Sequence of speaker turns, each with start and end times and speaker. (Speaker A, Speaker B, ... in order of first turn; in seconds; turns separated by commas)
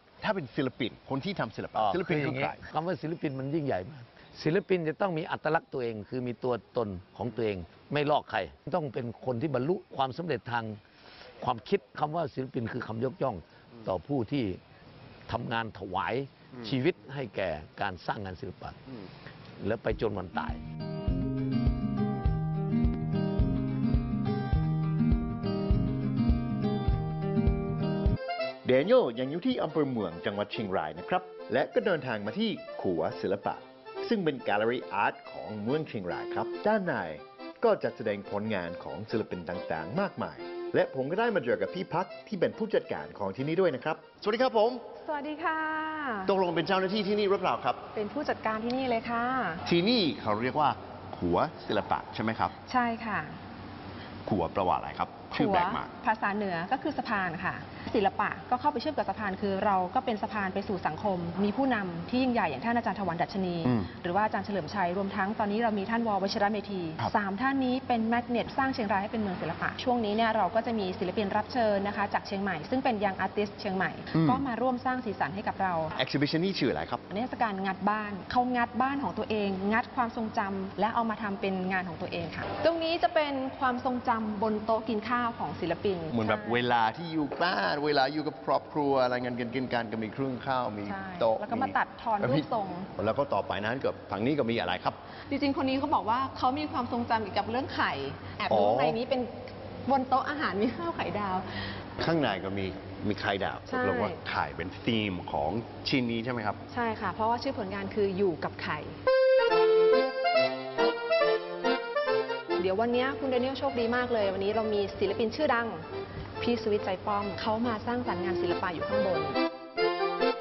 Speaker A: 0.2-2.6, Speaker B: 1.7-10.8, Speaker B: 11.4-14.6, Speaker B: 15.3-18.8, Speaker B: 19.6-20.6, Speaker A: 28.6-44.8, Speaker C: 45.0-46.3, Speaker A: 46.2-47.9, Speaker C: 47.9-49.6, Speaker A: 49.6-52.5, Speaker C: 52.7-53.4, Speaker A: 54.2-55.9, Speaker C: 55.3-75.9, Speaker A: 63.6-63.9, Speaker A: 74.1-74.4, Speaker A: 75.9-77.0, Speaker C: 77.1-86.7, Speaker A: 86.1-95.0, Speaker C: 90.9-92.9, Speaker C: 95.3-101.7, Speaker A: 98.5-99.0, Speaker A: 102.0-106.6, Speaker C: 103.7-104.2, Speaker C: 106.7-109.0, Speaker C: 112.6-115.8, Speaker C: 116.4-119.4